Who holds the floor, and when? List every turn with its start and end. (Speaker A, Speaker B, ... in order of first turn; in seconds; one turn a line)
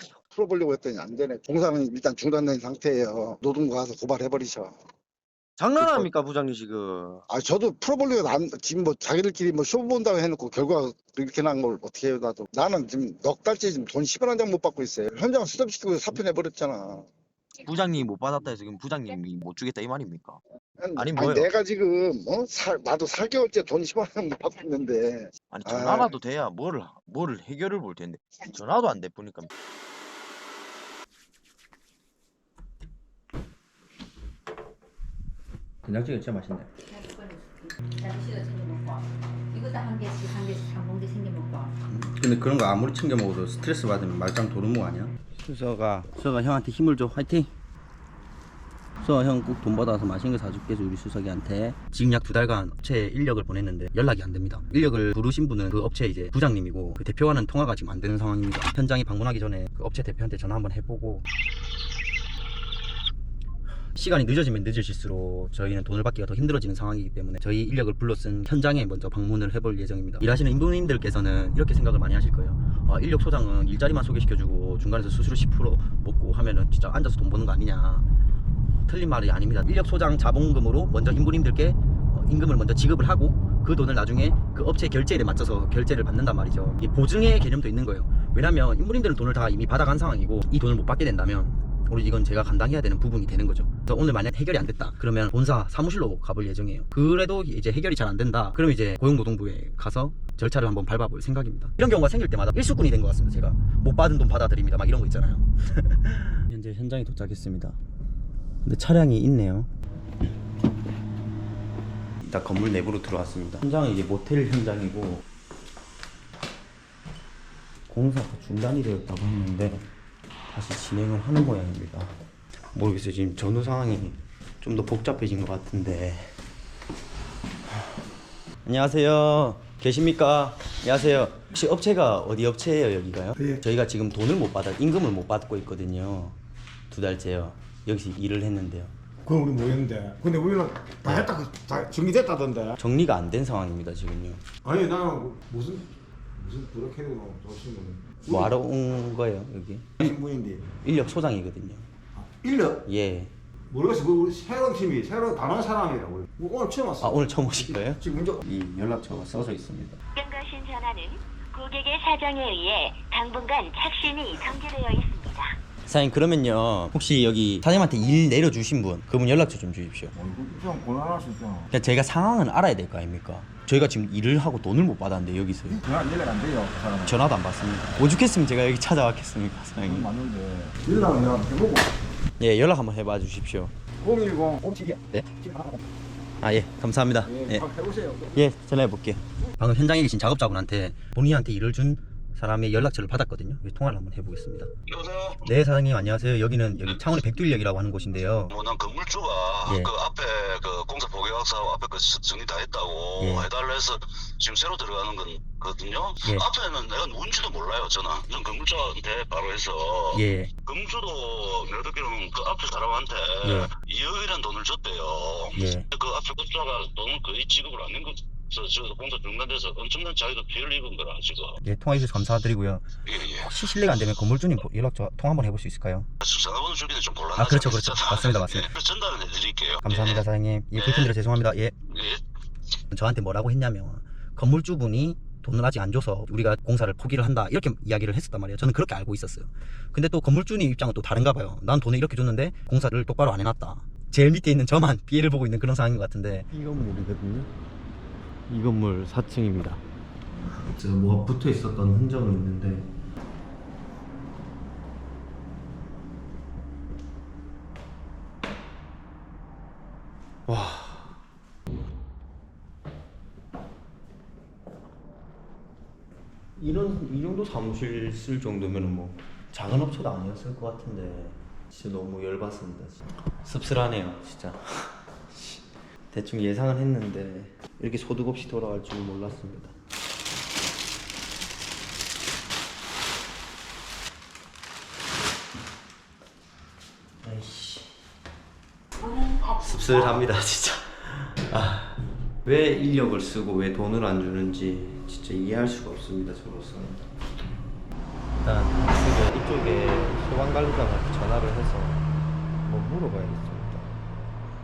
Speaker A: 0.3-4.7
Speaker A: 5.8-6.1
Speaker A: 7.3-17.1
Speaker B: 17.8-20.4
Speaker A: 20.8-26.1
Speaker B: 26.5-28.1
Speaker B: 29.0-29.4
Speaker C: 35.9-36.6
Speaker D: 36.9-41.7
Speaker C: 41.9-47.5
Speaker C: 49.0-61.2
Speaker C: 63.9-78.0
Speaker C: 78.8-107.8
Speaker C: 108.6-109.7
Speaker C: 112.2-115.2
Speaker C: 117.9-119.9
Speaker C: 120.5-122.1
Speaker C: 122.7-126.3
Speaker C: 128.6-136.3
Speaker E: 133.3-133.6
Speaker C: 136.9-138.9
Speaker E: 139.2-142.8
Speaker C: 142.8-144.4
Speaker E: 144.6-148.5
Speaker C: 148.3-150.1
Speaker E: 150.0-150.7
Speaker C: 150.8-151.9
Speaker E: 152.2-152.8
Speaker C: 152.8-153.3
Speaker E: 153.7-158.4
Speaker C: 157.0-160.0
Speaker F: 160.1-165.6
Speaker C: 165.9-170.1
Speaker E: 170.1-171.7
Speaker C: 171.7-175.8
Speaker E: 175.7-177.3
Speaker C: 177.1-180.1
Speaker E: 179.8-181.9
Speaker C: 182.4-183.7
Speaker E: 184.0-185.8
Speaker C: 186.4-187.6
Speaker E: 187.2-188.4
Speaker C: 188.3-194.7
Speaker G: 194.9-195.4
Speaker C: 195.4-198.5
Speaker G: 198.5-221.6
Speaker C: 199.7-199.9
Speaker C: 203.2-203.5
Speaker C: 210.1-210.5
Speaker C: 213.4-213.7
Speaker C: 215.5-215.9
Speaker C: 221.6-226.1
Speaker G: 223.1-223.5
Speaker G: 226.2-230.2
Speaker C: 227.3-228.7
Speaker C: 229.8-231.7
Speaker G: 230.7-231.1
Speaker G: 231.9-232.2
Speaker C: 232.9-247.5
Speaker C: 248.5-249.8
Speaker C: 250.5-252.8
Speaker C: 260.5-261.1
Speaker C: 266.6-279.7
Speaker C: 287.2-287.9
Speaker C: 289.5-297.0
Speaker C: 298.4-302.0
Speaker C: 302.6-303.9